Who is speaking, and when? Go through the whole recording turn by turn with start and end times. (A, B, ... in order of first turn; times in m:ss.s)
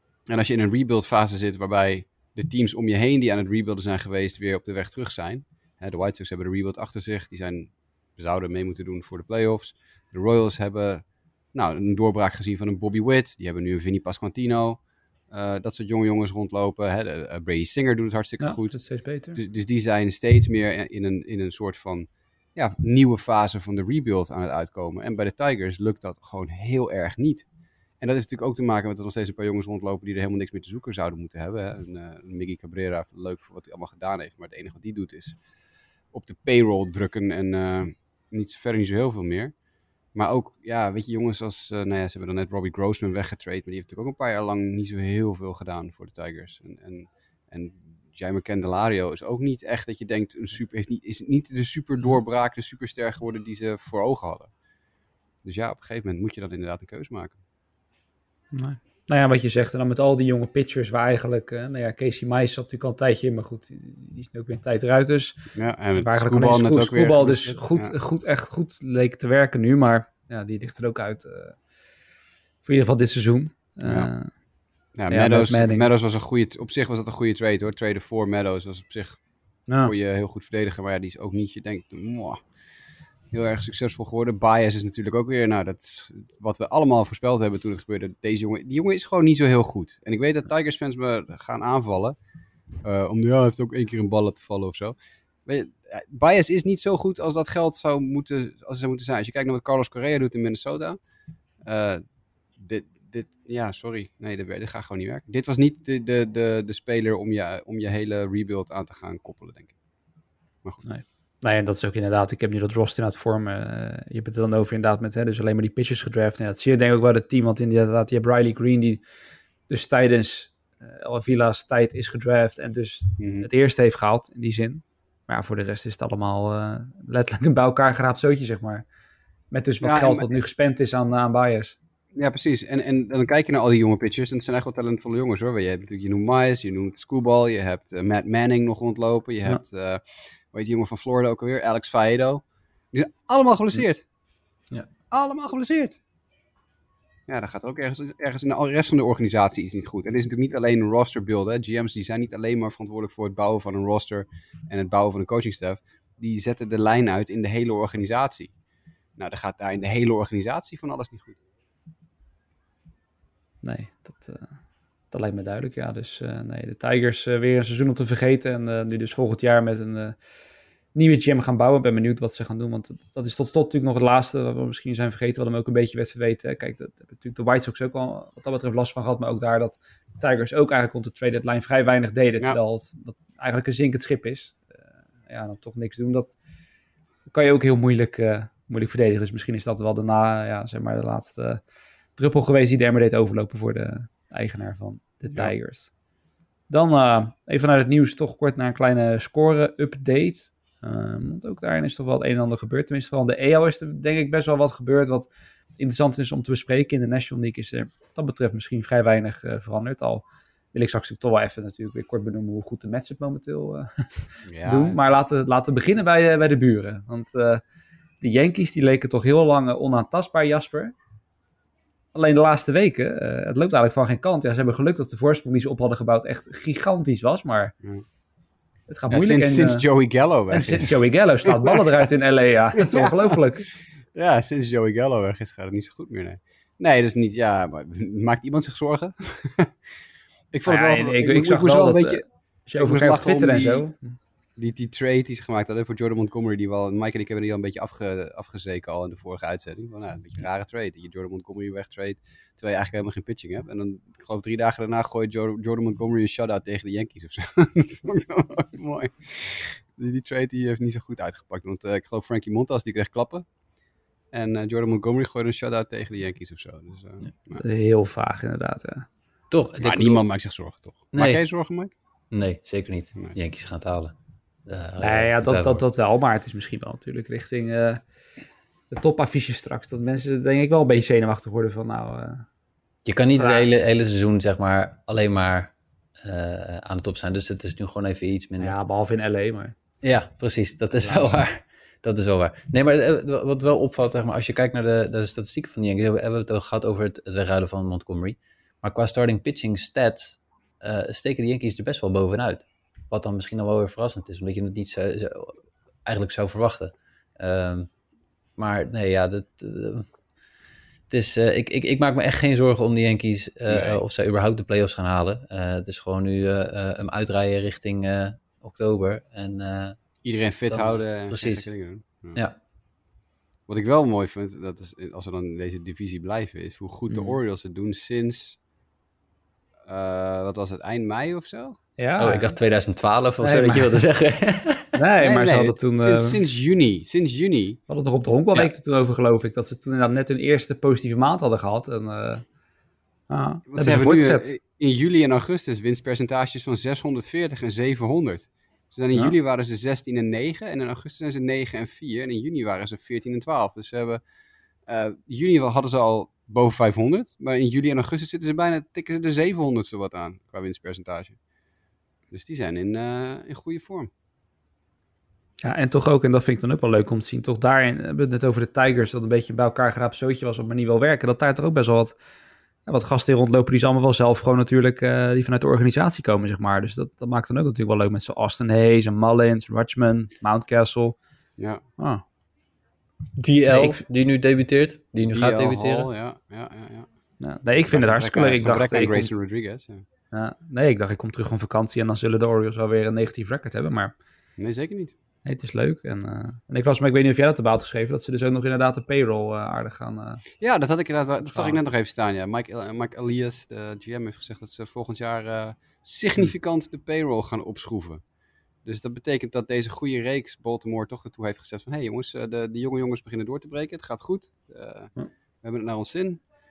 0:00.3-0:18.8 A
0:18.4-0:19.4 B
0:19.3-0:27.5 A
0:28.0-0:35.4 A
0:36.1-0:39.5 A
0:40.2-0:54.5 A
0:55.4-0:57.4 A
0:58.5-1:05.4 B
1:05.6-1:07.9 A
1:06.0-1:11.6 B
1:12.6-1:14.3 B
1:13.8-1:14.1 A
1:15.0-1:19.2 A
1:15.1-1:15.9 B
1:19.7-1:19.9 B
1:19.8-1:22.4 A
1:23.3-1:32.2 A
1:32.8-1:41.0 A
1:41.6-1:42.0 A
1:42.6-1:49.8 A
1:50.8-1:59.0 B
1:59.7-2:08.8 B
2:03.2-2:03.5 A
2:09.5-2:11.8 B
2:09.8-2:10.3 A
2:12.2-2:24.0 A
2:25.1-2:26.0 A
2:27.3-2:38.5 A
2:39.2-2:41.4 A
2:43.6-2:44.6 B
2:45.1-2:50.2 B
2:50.9-3:04.7 B
3:05.3-3:06.4 B
3:07.3-3:11.6 B
3:12.2-3:15.9 B
3:16.7-3:37.6 B
3:34.5-3:35.0 A
3:38.2-3:40.9 B
3:42.1-3:47.7 B
3:48.9-3:49.8 B
3:49.1-3:51.9 A
3:50.5-3:53.7 B
3:52.7-3:53.4 A
3:54.1-3:59.8 A
4:00.5-4:02.2 A
4:00.7-4:04.2 B
4:02.8-4:03.9 A
4:04.6-4:23.4 A
4:24.3-4:27.6 A
4:27.6-4:29.1 B
4:29.5-4:30.2 C
4:29.8-4:31.9 A
4:31.2-4:31.4 C
4:32.3-4:34.1 C
4:34.7-4:35.8 C
4:35.0-4:38.0 B
4:38.9-4:42.5 B
4:43.0-4:48.7 C
4:43.4-4:43.7 B
4:48.6-4:49.7 B
4:50.0-5:07.9 C
4:51.0-4:51.4 A
5:08.6-5:10.1 C
5:11.1-5:20.0 C
5:13.7-5:14.0 A
5:20.2-5:22.4 A
5:20.7-5:21.7 C
5:23.7-5:28.6 A
5:27.1-5:27.4 B
5:29.9-5:31.8 A
5:32.0-5:32.6 B
5:32.2-5:34.9 C
5:33.4-5:34.0 B
5:35.0-5:36.4 B
5:35.2-5:37.8 A
5:37.9-5:42.4 B
5:43.3-5:44.5 B
5:43.7-5:54.2 A
5:54.9-6:01.4 A
6:02.3-6:04.1 A
6:05.6-6:12.2 B
6:12.9-6:21.2 B
6:21.6-6:21.8 A
6:22.0-6:22.2 B
6:23.4-6:26.1 C
6:23.7-6:24.0 B
6:25.3-6:27.1 A
6:27.4-6:29.3 B
6:27.9-6:30.0 A
6:30.3-6:34.1 B
6:34.6-6:35.1 A
6:35.5-6:40.4 B
6:40.6-6:48.2 A
6:41.4-6:41.8 B
6:48.8-6:56.4 A